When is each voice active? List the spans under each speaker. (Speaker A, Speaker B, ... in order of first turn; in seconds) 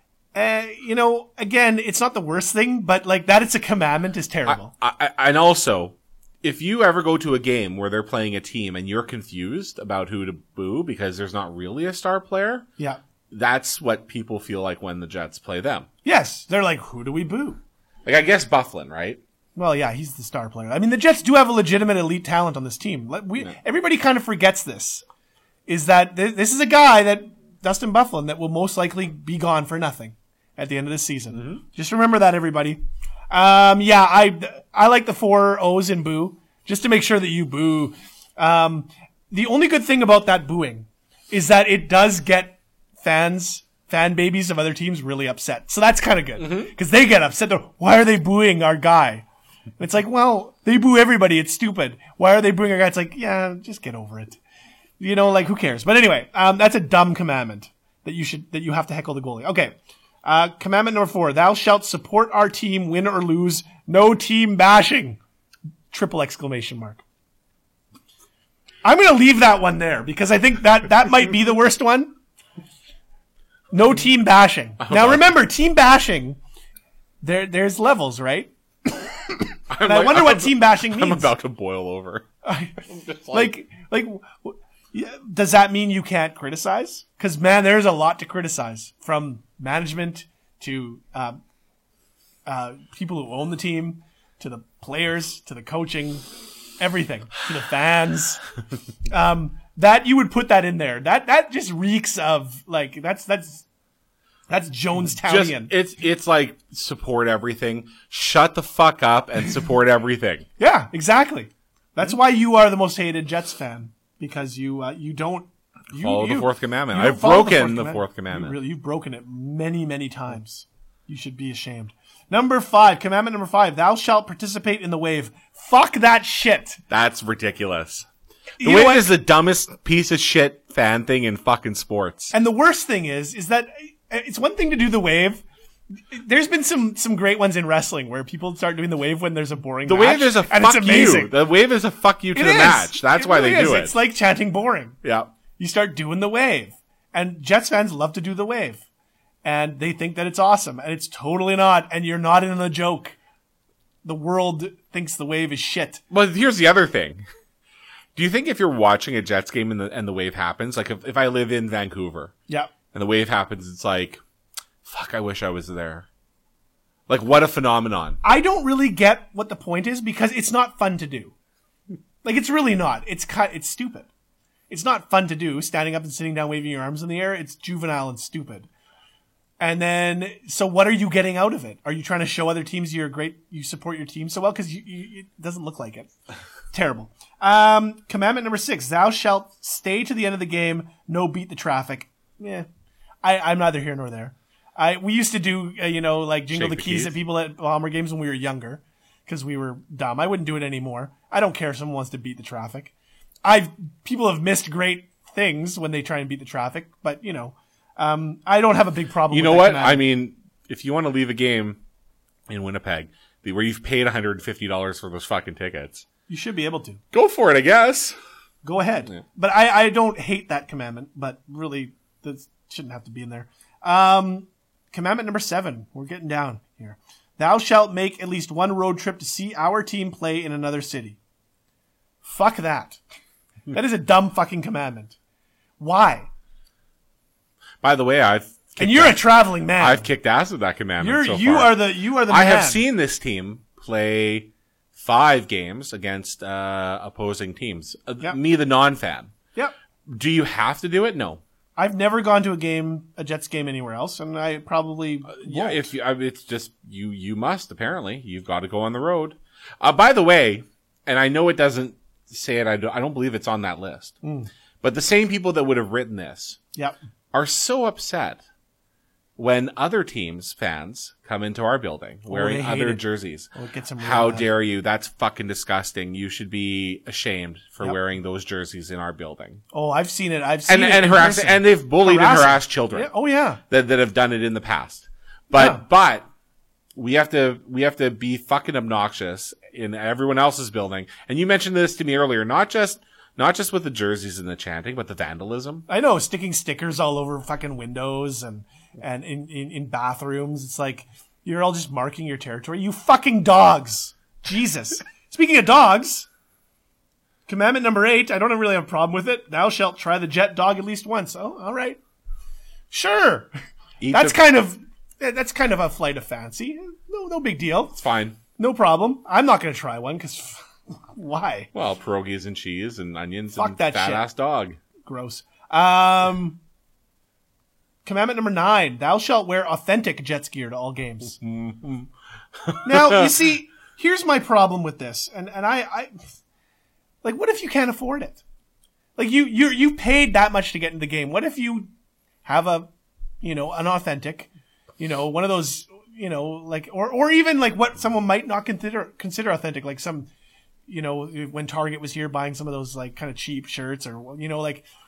Speaker A: 0.3-4.7, 16.0-17.6, 19.6-25.0, 25.7-49.3, 49.8-54.4, 55.0-65.2, 65.9-67.0, 68.8-72.1, 73.7-76.4, 77.2-81.3, 82.4-91.4, 92.5-96.2, 96.8-98.4, 99.1-103.7, 104.5-105.7, 110.6-126.8, 128.6-129.1, 132.3-135.4, 136.1-141.3, 142.3-145.0, 145.6-148.8, 149.4-153.2, 154.0-156.0, 168.2-171.3, 172.2-174.1, 174.7-178.7, 179.6-186.1, 186.7-192.7, 193.2-202.9, 203.4-210.0, 216.3-217.0, 218.6-231.2, 232.2-233.0, 233.7-235.2, 235.8-236.3, 238.8-240.1, 241.0-242.8, 251.8-255.9, 264.2-264.5, 272.3-274.5, 279.7-283.6, 285.5-285.8, 295.9-306.3, 307.5-312.0, 312.9-313.5, 314.1-318.0, 318.6-321.7, 323.6-324.3, 325.0-326.6, 328.1-331.4, 332.8-336.1, 337.2-338.4, 339.2-341.9, 342.4-342.9, 343.4-350.3, 350.9-354.9
Speaker B: 4.5-12.7, 13.3-15.9, 18.1-19.2, 31.3-31.6, 46.4-46.7, 74.8-75.3, 79.7-82.3, 82.9-83.5, 105.2-110.5, 116.0-118.6, 126.9-128.1, 128.6-132.3, 139.9-144.0, 145.0-145.3, 156.1-157.2, 158.2-162.3, 162.9-164.2, 164.8-166.1, 167.1-168.2, 196.5-197.2, 209.3-211.8, 212.5-216.1, 217.1-218.2, 237.8-249.3, 250.1-251.4, 255.3-264.2, 264.8-266.6, 267.3-268.4, 269.4-279.6, 280.7-283.1, 283.7-286.3, 286.9-295.9, 314.0-314.5, 318.0-318.4, 321.7-324.8, 331.4-332.1, 332.6-333.4